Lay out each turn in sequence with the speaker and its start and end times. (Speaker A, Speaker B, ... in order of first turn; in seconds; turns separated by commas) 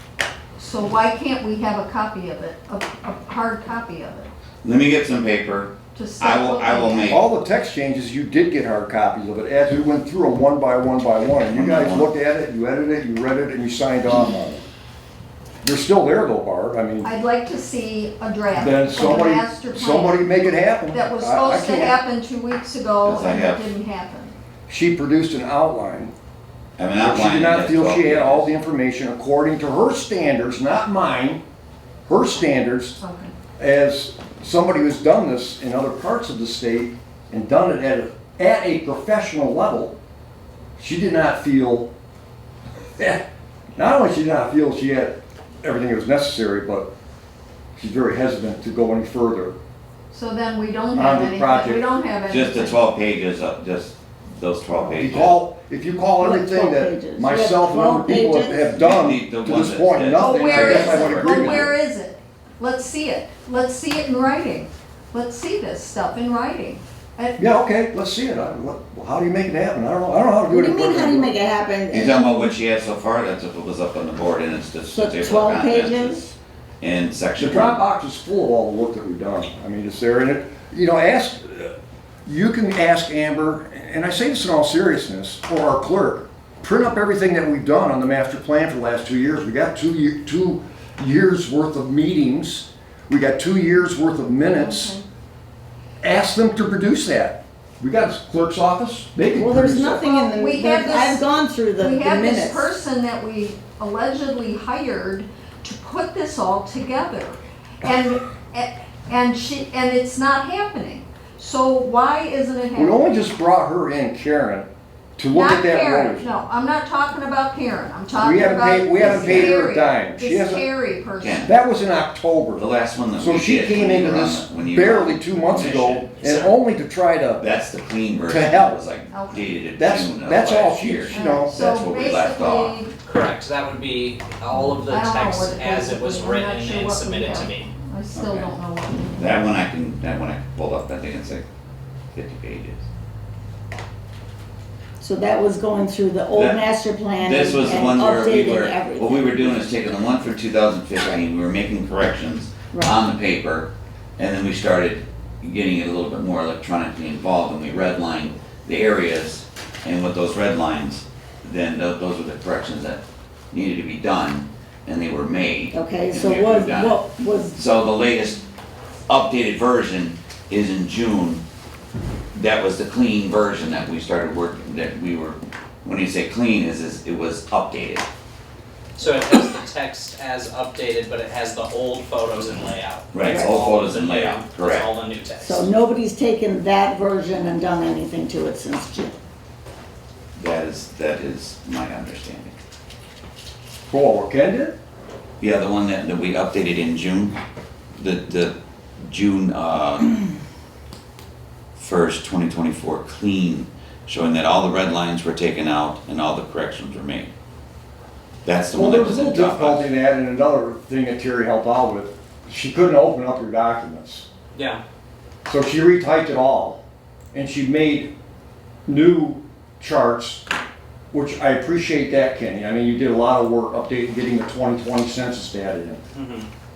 Speaker A: 0.6-4.3, Speaker B: 4.6-7.2, Speaker A: 5.9-7.2, Speaker C: 7.1-14.6, Speaker B: 11.5-12.1, Speaker C: 15.6-17.1, Speaker A: 17.0-20.2, Speaker C: 18.5-22.0, Speaker A: 20.9-24.3, Speaker B: 23.0-23.6, Speaker C: 24.7-26.1, Speaker B: 26.8-28.5, Speaker C: 27.0-31.4, Speaker C: 32.1-33.0, Speaker A: 33.0-33.3, Speaker C: 33.6-40.0, Speaker C: 40.8-41.9, Speaker C: 43.0-43.2, Speaker C: 43.8-46.9, Speaker C: 47.8-49.5, Speaker A: 50.1-52.8, Speaker C: 50.9-51.8, Speaker B: 52.3-55.4, Speaker C: 54.8-61.7, Speaker D: 56.2-58.7, Speaker B: 58.7-61.7, Speaker A: 60.1-67.4, Speaker C: 67.4-71.4, Speaker D: 70.5-72.5, Speaker B: 71.9-76.2, Speaker D: 74.9-76.3, Speaker B: 76.8-77.8, Speaker C: 77.4-81.7, Speaker C: 82.2-95.0, Speaker A: 94.5-95.0, Speaker C: 96.0-100.0, Speaker D: 99.3-102.7, Speaker A: 100.0-101.2, Speaker A: 101.8-113.0, Speaker C: 112.8-116.3, Speaker A: 115.3-121.5, Speaker C: 118.2-120.6, Speaker D: 119.0-119.4, Speaker B: 121.2-121.5, Speaker C: 121.4-122.6, Speaker B: 122.5-126.5, Speaker C: 123.2-127.5, Speaker B: 127.4-132.8, Speaker C: 128.3-128.8, Speaker A: 129.1-129.5, Speaker C: 129.8-131.5, Speaker A: 131.1-132.9, Speaker E: 133.0-137.7, Speaker A: 134.5-139.4, Speaker B: 138.1-138.5, Speaker B: 139.2-141.4, Speaker B: 142.1-142.8, Speaker D: 145.0-149.7, Speaker B: 146.3-146.6, Speaker B: 147.2-163.0, Speaker D: 152.7-153.0, Speaker B: 163.5-167.0, Speaker D: 165.7-167.6, Speaker B: 167.5-168.4, Speaker B: 169.1-171.4, Speaker B: 172.3-178.1, Speaker E: 179.0-185.6, Speaker B: 183.1-185.0, Speaker D: 183.2-183.5, Speaker D: 185.4-189.2, Speaker B: 190.3-192.6, Speaker C: 193.9-194.7, Speaker B: 195.4-197.3, Speaker B: 198.0-200.2, Speaker B: 201.8-207.3, Speaker B: 208.4-209.9, Speaker C: 208.7-214.3, Speaker C: 215.5-216.8, Speaker C: 217.3-218.1, Speaker C: 218.9-220.4, Speaker C: 221.1-226.0, Speaker E: 226.1-226.5